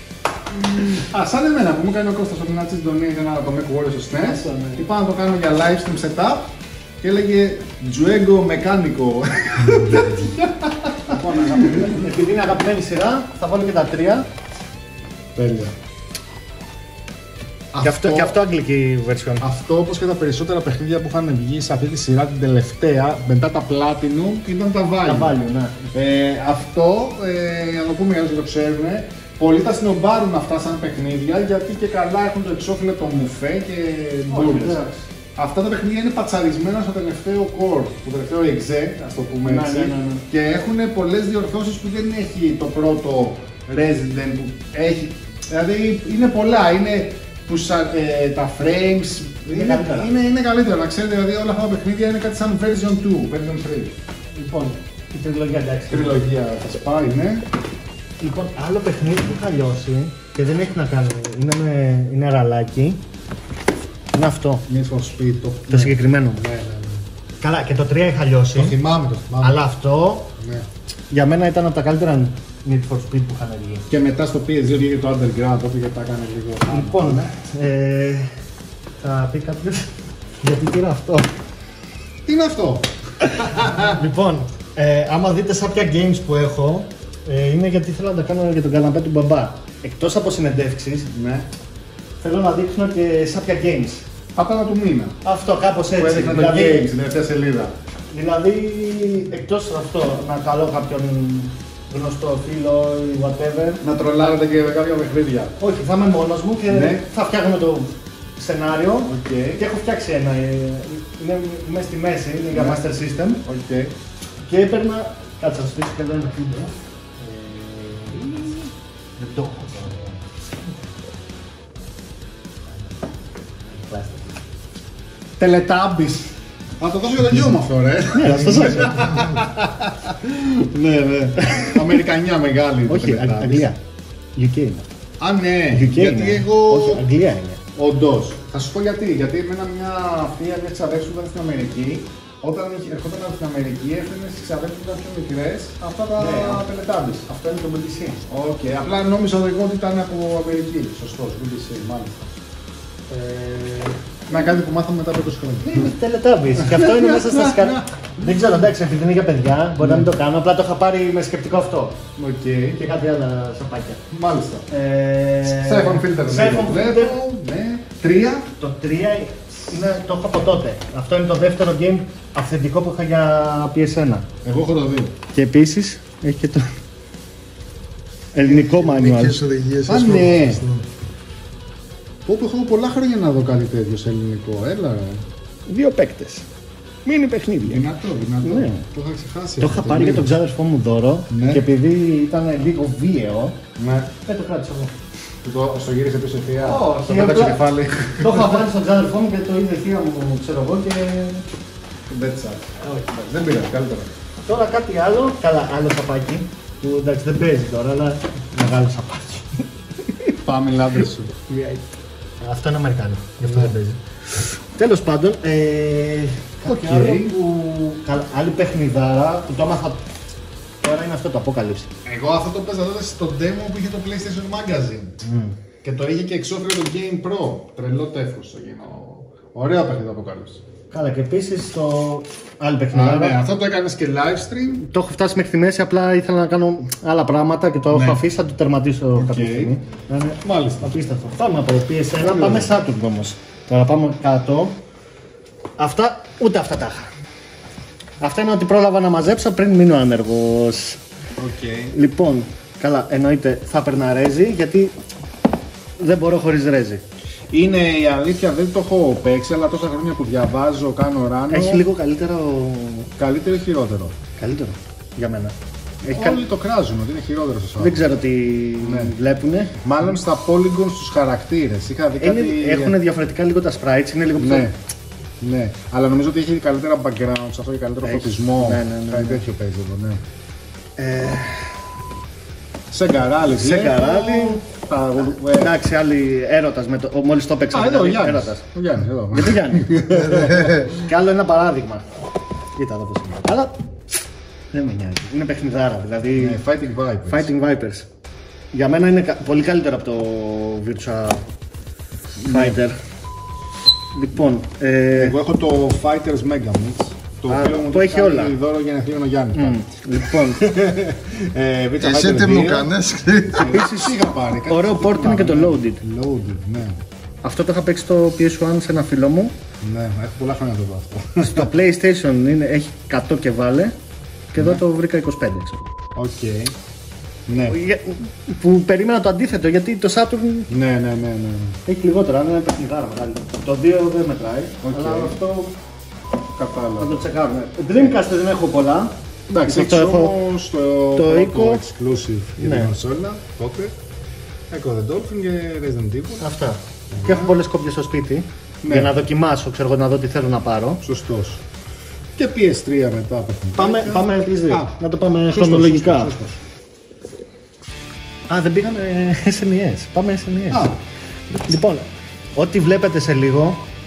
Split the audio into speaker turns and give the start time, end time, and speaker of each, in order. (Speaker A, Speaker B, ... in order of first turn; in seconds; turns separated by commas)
Speaker A: 0.5-6.5, Speaker B: 4.1-4.8, Speaker A: 7.0-12.2, Speaker B: 11.3-14.3, Speaker A: 15.3-15.7, Speaker A: 17.7-18.4, Speaker B: 17.8-19.5, Speaker A: 19.4-25.4, Speaker B: 25.0-25.9, Speaker A: 25.9-34.8, Speaker B: 34.3-35.0, Speaker A: 35.4-53.9, Speaker B: 39.4-40.2, Speaker B: 49.5-50.1, Speaker B: 54.3-56.2, Speaker A: 55.9-57.5, Speaker B: 58.2-63.0, Speaker B: 64.1-64.6, Speaker A: 64.7-67.0, Speaker B: 65.7-66.4, Speaker B: 67.4-68.8, Speaker A: 68.5-69.6, Speaker B: 69.4-70.3, Speaker A: 70.4-70.7, Speaker B: 71.1-73.9, Speaker A: 73.9-77.2, Speaker B: 76.7-78.4, Speaker B: 79.0-81.3, Speaker A: 82.2-84.0, Speaker B: 83.3-91.1, Speaker A: 91.1-91.5, Speaker B: 92.2-94.0, Speaker A: 94.3-95.2, Speaker B: 95.2-96.9, Speaker A: 95.9-97.7, Speaker B: 98.1-103.8, Speaker A: 103.8-105.5, Speaker B: 105.6-113.4, Speaker A: 106.7-107.0, Speaker A: 109.0-109.6, Speaker A: 112.5-112.8, Speaker A: 113.4-113.9, Speaker B: 114.5-120.2, Speaker B: 123.7-124.4, Speaker A: 125.4-133.7, Speaker B: 128.1-129.3, Speaker B: 131.4-131.8, Speaker B: 132.9-133.8, Speaker B: 134.3-134.9, Speaker A: 135.2-137.0, Speaker B: 135.7-137.6, Speaker A: 137.7-147.3, Speaker B: 146.2-146.7, Speaker B: 147.3-148.2, Speaker A: 148.3-152.3, Speaker B: 153.1-154.0, Speaker A: 154.3-155.9, Speaker B: 155.6-162.0, Speaker A: 156.5-158.6, Speaker A: 159.8-160.1, Speaker A: 162.2-162.8, Speaker B: 162.8-164.0, Speaker A: 164.1-164.7, Speaker B: 164.7-167.2, Speaker A: 165.4-168.5, Speaker B: 168.5-174.3, Speaker A: 174.4-175.1, Speaker B: 175.3-176.7, Speaker B: 178.3-179.4, Speaker A: 178.4-178.9, Speaker C: 178.7-180.8, Speaker A: 179.8-180.6, Speaker A: 182.2-185.2, Speaker B: 185.7-186.5, Speaker B: 187.0-187.8, Speaker A: 187.6-190.3, Speaker B: 188.4-188.8, Speaker B: 189.6-193.6, Speaker A: 191.3-191.6, Speaker A: 193.8-194.1, Speaker B: 194.2-194.9, Speaker A: 195.4-198.7, Speaker B: 196.6-197.6, Speaker B: 198.2-201.4, Speaker A: 202.1-204.1, Speaker B: 202.8-203.2, Speaker B: 204.4-210.3, Speaker A: 210.4-211.3, Speaker B: 211.5-211.8, Speaker B: 212.4-220.0, Speaker A: 213.4-213.7, Speaker A: 216.6-217.3, Speaker B: 220.8-221.9, Speaker A: 222.0-225.2, Speaker B: 225.2-225.5, Speaker A: 225.8-230.6, Speaker B: 230.9-233.4, Speaker A: 232.9-234.8, Speaker B: 234.8-244.8, Speaker A: 237.9-238.2, Speaker A: 239.2-239.7, Speaker A: 240.4-240.9, Speaker A: 242.2-242.8, Speaker B: 245.8-247.1, Speaker B: 248.2-251.0, Speaker A: 251.4-251.9, Speaker B: 251.9-254.9, Speaker B: 256.0-257.0, Speaker A: 257.5-261.8, Speaker B: 261.5-263.1, Speaker A: 263.2-264.2, Speaker B: 264.4-266.4, Speaker A: 266.1-268.0, Speaker B: 267.8-269.7, Speaker A: 268.8-269.1, Speaker A: 269.8-273.0, Speaker B: 272.2-274.7, Speaker A: 274.4-274.7, Speaker A: 275.4-280.2, Speaker B: 278.0-279.4, Speaker B: 281.0-281.8, Speaker A: 282.9-285.8, Speaker B: 283.5-284.6, Speaker B: 285.1-288.6, Speaker A: 287.7-291.1, Speaker B: 289.3-292.1, Speaker B: 292.8-293.7, Speaker B: 294.7-296.6, Speaker A: 296.4-297.5, Speaker B: 297.3-298.1, Speaker B: 298.7-301.4, Speaker A: 302.4-302.8, Speaker B: 302.5-303.0, Speaker B: 304.1-305.4, Speaker A: 305.1-312.9, Speaker B: 307.5-308.5, Speaker B: 309.5-310.7, Speaker C: 312.0-313.7, Speaker A: 313.5-317.0, Speaker B: 313.6-316.0, Speaker B: 317.4-319.5, Speaker A: 319.8-321.7, Speaker B: 321.4-323.9, Speaker B: 324.5-325.9, Speaker A: 324.6-324.8, Speaker A: 326.1-326.7, Speaker A: 327.5-327.8, Speaker B: 327.6-330.7, Speaker A: 330.7-331.8, Speaker B: 331.9-335.7, Speaker A: 334.8-335.4, Speaker A: 336.6-338.2, Speaker B: 337.0-339.1, Speaker A: 339.5-343.9, Speaker B: 339.6-340.4, Speaker B: 341.1-341.8, Speaker B: 342.6-342.9, Speaker A: 344.7-346.5, Speaker B: 346.4-351.0, Speaker A: 347.1-347.6, Speaker A: 348.8-349.1, Speaker A: 351.0-351.6, Speaker A: 352.4-356.6, Speaker B: 353.8-356.3, Speaker B: 358.5-360.9, Speaker A: 360.7-361.0, Speaker B: 361.5-363.8